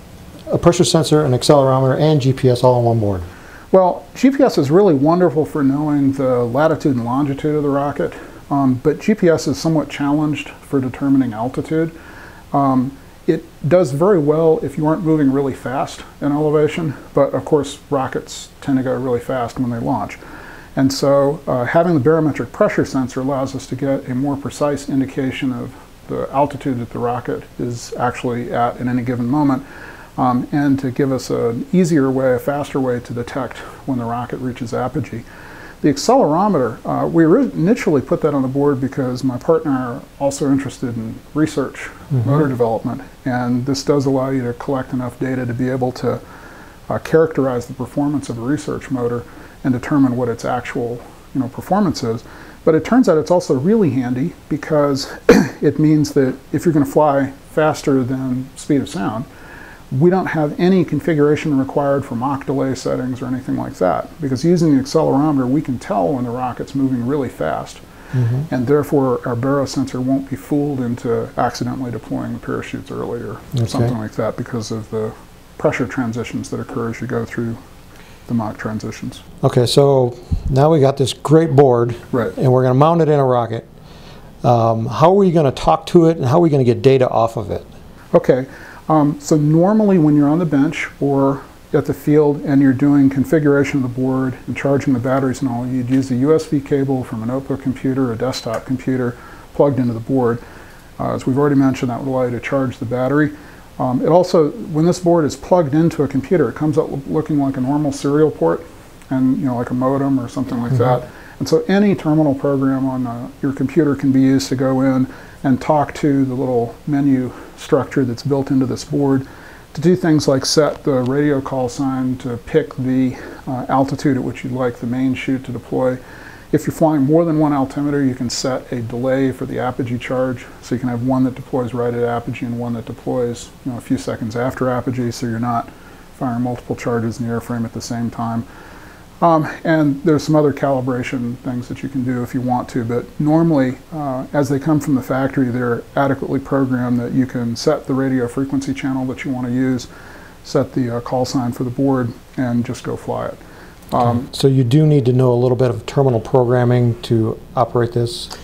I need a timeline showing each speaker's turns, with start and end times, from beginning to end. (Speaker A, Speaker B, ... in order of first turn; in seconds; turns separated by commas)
Speaker A: 0.5-3.3, Speaker B: 3.7-11.9, Speaker B: 12.5-20.2, Speaker B: 20.8-29.6, Speaker B: 30.2-35.2, Speaker B: 35.8-46.2, Speaker B: 46.9-59.3, Speaker B: 59.9-67.8, Speaker A: 68.2-68.5, Speaker B: 68.5-77.6, Speaker A: 73.6-73.9, Speaker B: 78.3-79.2, Speaker A: 79.5-83.6, Speaker A: 84.4-87.6, Speaker B: 88.1-100.4, Speaker B: 101.0-126.0, Speaker B: 126.5-138.4, Speaker B: 139.2-149.9, Speaker B: 150.4-153.4, Speaker B: 153.9-154.2, Speaker A: 154.2-158.3